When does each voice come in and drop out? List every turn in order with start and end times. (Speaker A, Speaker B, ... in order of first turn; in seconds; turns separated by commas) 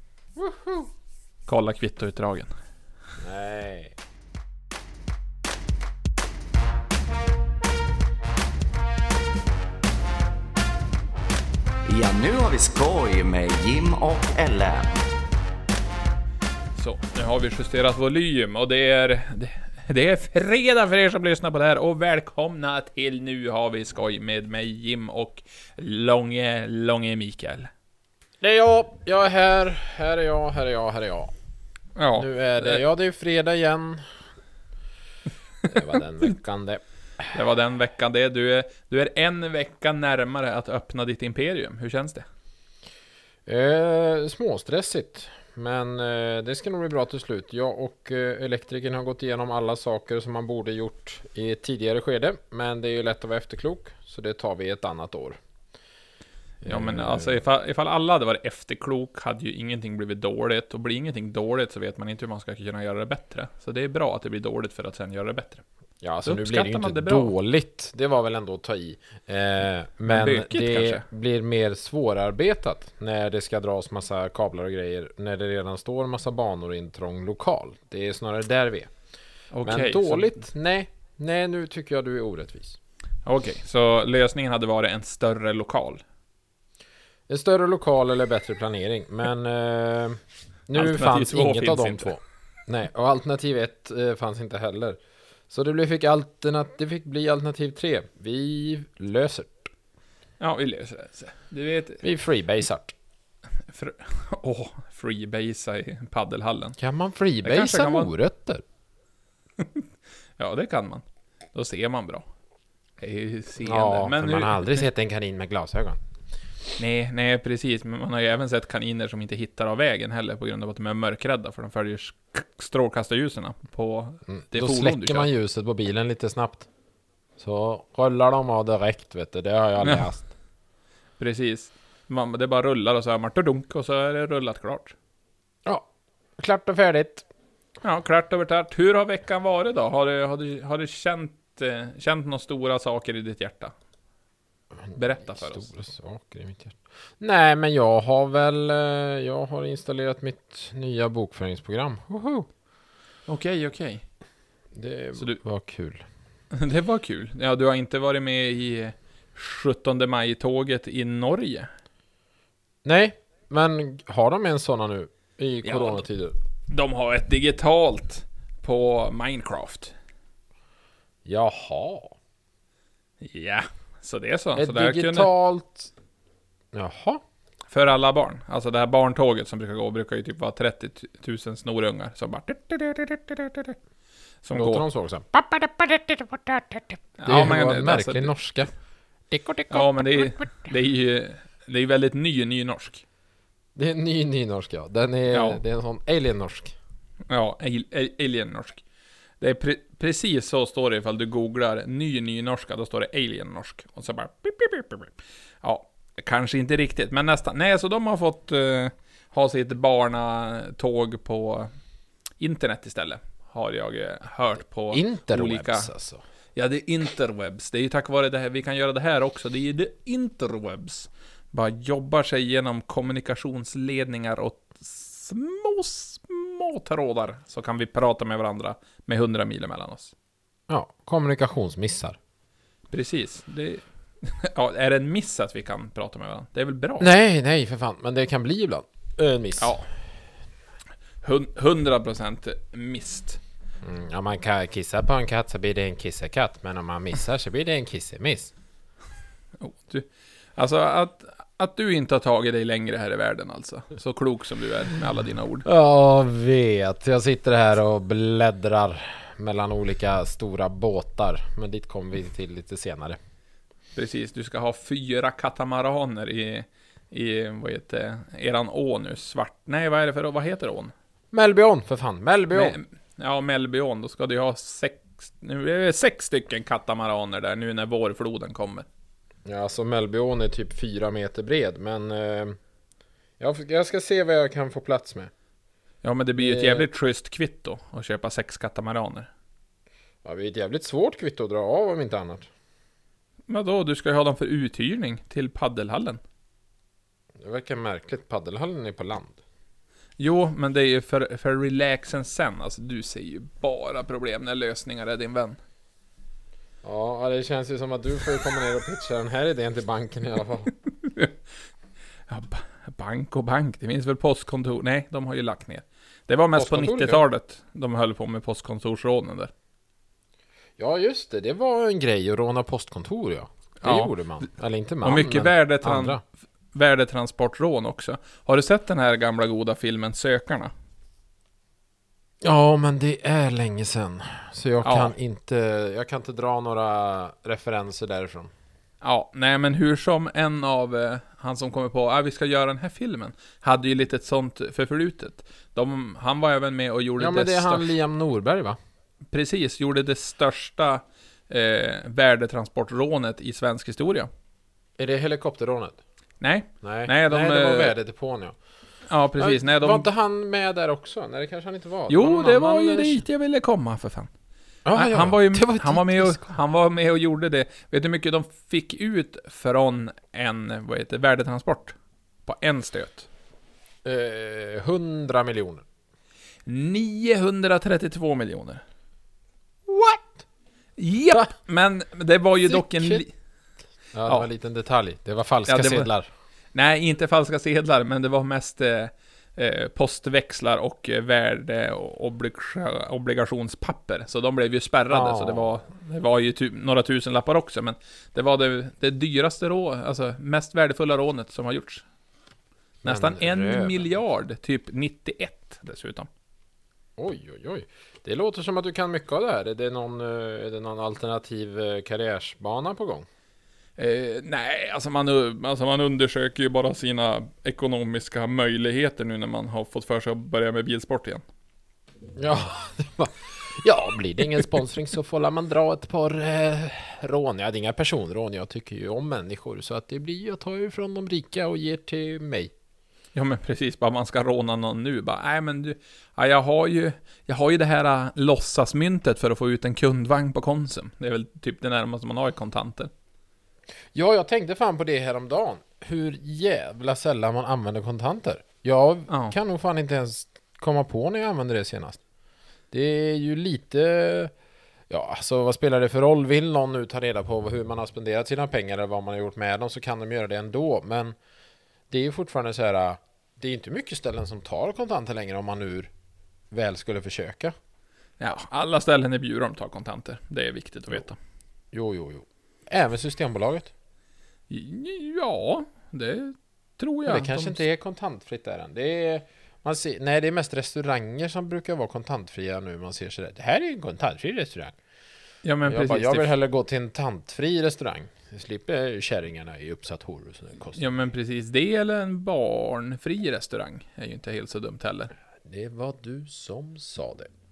Speaker A: 0.4-0.9, Speaker B: 1.5-2.5, Speaker A: 3.2-3.9, Speaker C: 11.9-15.0, Speaker B: 16.8-27.7, Speaker A: 28.4-31.3, Speaker B: 31.9-32.8, Speaker A: 32.1-34.1, Speaker A: 35.7-37.3, Speaker B: 37.3-42.3, Speaker A: 43.5-55.4, Speaker A: 56.6-57.4, Speaker B: 56.7-65.6, Speaker A: 66.0-78.9, Speaker B: 66.2-67.3, Speaker B: 70.1-71.0, Speaker B: 79.5-80.4, Speaker A: 79.6-82.8, Speaker B: 83.2-86.0, Speaker A: 87.3-95.0, Speaker B: 90.8-92.1, Speaker A: 95.5-99.7, Speaker B: 100.4-102.0, Speaker A: 102.0-102.9, Speaker B: 103.7-106.8, Speaker A: 106.8-108.6, Speaker B: 107.4-108.1, Speaker B: 109.6-112.2, Speaker B: 113.0-114.9, Speaker A: 113.6-116.0, Speaker B: 116.8-125.3, Speaker A: 124.3-126.7, Speaker A: 127.4-130.3, Speaker B: 129.8-130.0, Speaker B: 131.2-134.9, Speaker A: 136.4-137.3, Speaker B: 137.8-143.7, Speaker A: 144.8-152.5, Speaker B: 144.9-145.7, Speaker B: 153.3-154.0, Speaker A: 154.7-156.0, Speaker B: 156.5-161.7, Speaker A: 162.8-166.3, Speaker B: 165.6-166.0, Speaker B: 166.7-169.9, Speaker A: 171.2-172.2, Speaker B: 173.2-175.3, Speaker A: 174.6-175.9, Speaker A: 176.7-177.2, Speaker B: 177.7-183.8, Speaker B: 184.4-184.8, Speaker A: 184.5-188.7, Speaker B: 187.2-188.3, Speaker A: 189.3-190.3, Speaker B: 189.7-193.0, Speaker A: 193.8-196.8, Speaker B: 195.3-195.6, Speaker B: 197.3-198.8, Speaker B: 199.4-211.7, Speaker B: 212.4-215.9, Speaker A: 214.9-216.2, Speaker B: 216.6-230.1, Speaker A: 230.7-232.2, Speaker B: 232.9-237.1, Speaker A: 237.0-239.8, Speaker B: 239.6-239.8, Speaker B: 241.2-243.4, Speaker A: 243.8-248.5, Speaker B: 249.6-255.7, Speaker A: 255.6-263.2, Speaker B: 263.9-270.9, Speaker A: 271.3-272.8, Speaker B: 272.5-278.9, Speaker A: 279.4-282.6, Speaker A: 283.4-285.3, Speaker B: 286.0-289.3, Speaker A: 286.4-286.9, Speaker A: 290.2-292.5, Speaker B: 293.5-296.2, Speaker A: 297.4-299.4, Speaker B: 300.2-305.6, Speaker A: 306.8-310.7, Speaker B: 311.0-311.4, Speaker B: 312.3-319.5, Speaker A: 316.6-317.2, Speaker A: 320.8-326.2, Speaker B: 323.8-324.1, Speaker B: 325.0-326.2, Speaker B: 326.7-330.7, Speaker A: 332.4-338.5, Speaker B: 334.8-335.1, Speaker B: 339.0-347.9, Speaker A: 347.2-348.8, Speaker B: 349.3-354.3, Speaker A: 355.0-356.0, Speaker B: 356.4-357.9, Speaker A: 356.8-358.6, Speaker B: 359.1-360.1, Speaker A: 359.4-363.2, Speaker B: 362.1-364.3, Speaker A: 364.9-366.6, Speaker B: 364.9-373.3, Speaker A: 374.0-375.8, Speaker B: 376.6-378.8, Speaker A: 379.9-380.3, Speaker B: 381.0-383.3, Speaker A: 382.6-383.2, Speaker A: 384.1-386.3, Speaker B: 385.7-386.1, Speaker B: 386.7-402.0, Speaker A: 395.1-395.9, Speaker A: 403.0-404.1, Speaker B: 403.0-406.3, Speaker A: 407.2-413.3, Speaker B: 414.0-421.4, Speaker A: 422.4-432.7, Speaker B: 433.4-443.1, Speaker A: 444.1-452.2, Speaker B: 449.3-449.5, Speaker A: 452.9-454.5, Speaker A: 455.1-461.4, Speaker A: 462.1-466.1, Speaker A: 466.7-467.8, Speaker B: 468.4-471.4, Speaker A: 471.9-473.9, Speaker B: 474.7-477.8, Speaker A: 477.2-484.9, Speaker B: 485.6-486.5, Speaker A: 485.9-491.1, Speaker B: 491.0-495.3, Speaker A: 495.6-497.5